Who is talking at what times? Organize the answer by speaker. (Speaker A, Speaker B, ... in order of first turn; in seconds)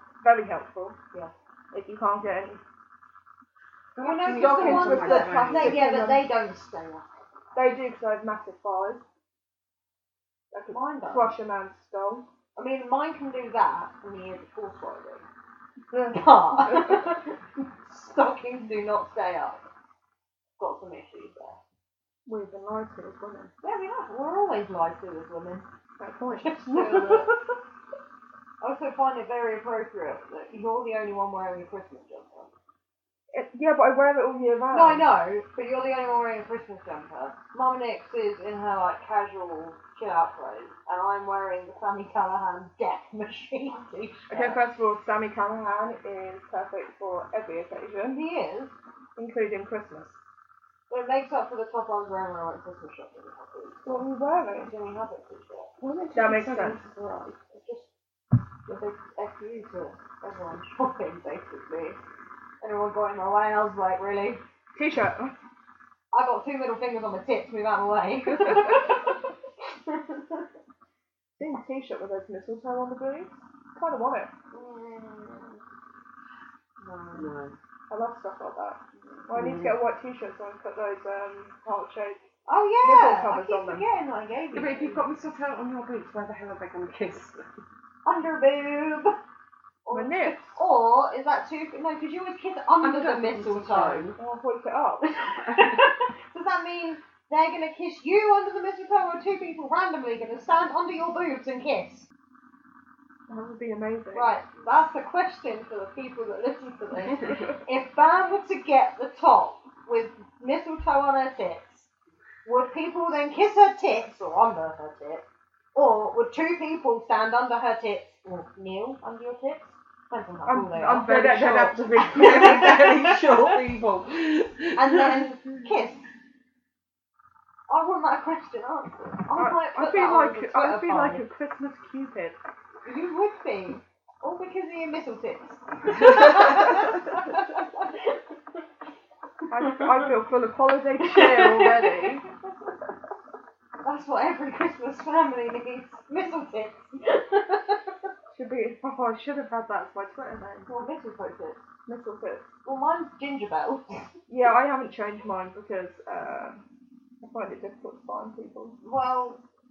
Speaker A: 0.2-1.0, 1.7-2.6, 4.2-6.2, 7.5-9.0, 10.5-12.2, 15.9-17.1, 22.2-23.5, 26.0-27.4, 33.3-35.1, 44.3-48.2, 49.2-50.2, 53.8-54.7, 56.1-56.8, 64.7-65.3, 68.3-69.0, 71.4-74.3, 77.9-82.2, 82.8-83.9, 89.9-90.6, 94.2-95.1, 103.3-104.4, 120.5-122.4, 129.3-132.4, 139.5-142.2, 148.3-150.7, 151.8-152.5, 154.3-156.6, 157.2-158.8
Speaker B: 4.0-5.9, 55.8-57.4, 77.1-77.6, 79.3-79.8, 84.5-87.5, 92.8-94.1, 95.4-95.9, 121.0-125.3
Speaker C: 4.0-7.1, 10.7-11.3, 12.5-15.3, 16.1-19.6, 20.6-21.6, 23.6-25.6, 26.3-27.3, 28.6-32.5, 34.7-44.6, 48.1-48.7, 50.9-53.9, 54.5-55.7, 57.5-57.9, 58.6-62.0, 62.6-64.4, 66.1-70.5, 74.5-75.6, 76.8-77.3, 82.5-85.0, 88.0-89.1, 89.8-94.2, 95.0-102.1, 104.1-111.9, 112.4-121.1, 122.2-123.0, 124.7-126.1, 127.7-131.2, 132.8-138.2, 139.6-140.1, 141.0-142.3, 143.8-148.1, 150.7-151.6, 152.6-154.1, 158.8-159.4